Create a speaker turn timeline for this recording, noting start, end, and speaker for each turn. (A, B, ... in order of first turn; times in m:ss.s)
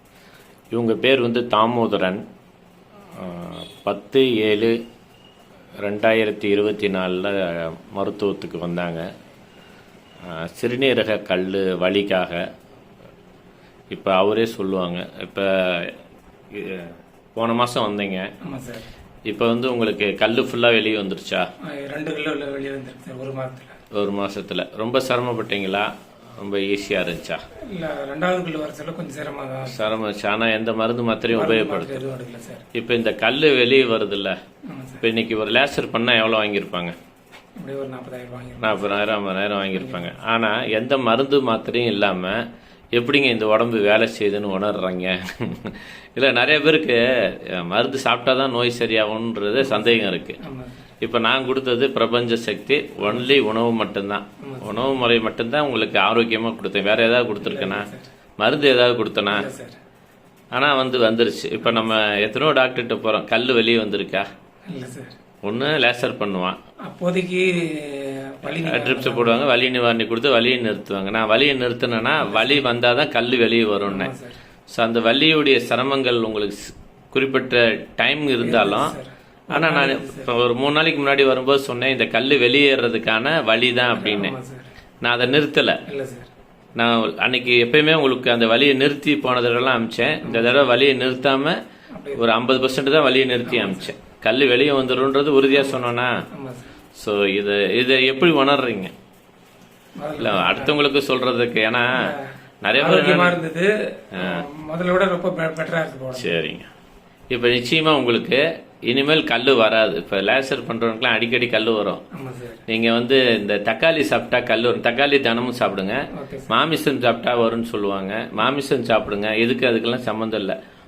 0:00.7-0:02.2 A
0:03.1-0:04.8 A
0:05.8-0:09.0 A
0:10.2-0:12.4 A
0:13.9-0:16.0 A
0:16.5-0:18.2 A
0:18.4-0:18.9 B
0:19.3-0:21.4 A
0:21.7-0:23.7 B
0:23.9-0:27.4 A
0:27.7-0:29.8 B
0:29.6-0:32.0 A
0:31.3-0:32.6 B
0:32.7-0:34.3 A
0:34.6-0:35.0 B
0:35.0-0:36.9 A
0:37.6-0:38.9 B
0:38.6-0:42.4 A
0:39.7-0:40.2 B
0:43.0-0:50.4 A
0:49.6-0:50.8 B
0:51.0-0:57.9 A
0:53.0-0:53.3 B
0:54.4-0:55.0 B
0:57.4-0:58.1 B
0:58.4-0:59.5 A
0:59.3-0:59.8 B
1:00.5-1:04.2 A
1:01.6-1:01.9 B
1:04.7-1:05.1 B
1:05.4-1:06.6 A
1:06.8-1:09.4 B
1:08.4-1:14.1 A
1:12.2-1:12.6 B
1:13.9-1:14.4 B
1:14.7-1:18.9 A
1:18.4-1:20.3 B
1:19.5-1:24.3 A
1:23.9-1:24.7 B
1:25.0-1:25.8 A
1:25.9-1:26.3 B
1:26.8-1:31.6 A
1:30.2-1:30.6 B
1:31.9-1:32.2 B
1:32.2-1:36.1 A
1:33.4-1:33.9 B
1:35.5-1:36.7 B
1:37.0-1:38.9 A
1:40.0-1:40.8 B
1:40.2-1:42.1 A
1:42.0-1:46.4 B
1:42.6-1:43.4 A
1:44.2-1:44.4 A
1:46.1-1:46.6 A
1:47.3-1:52.0 A
1:52.1-1:52.6 B
1:52.7-2:00.5 A
1:56.1-1:56.5 B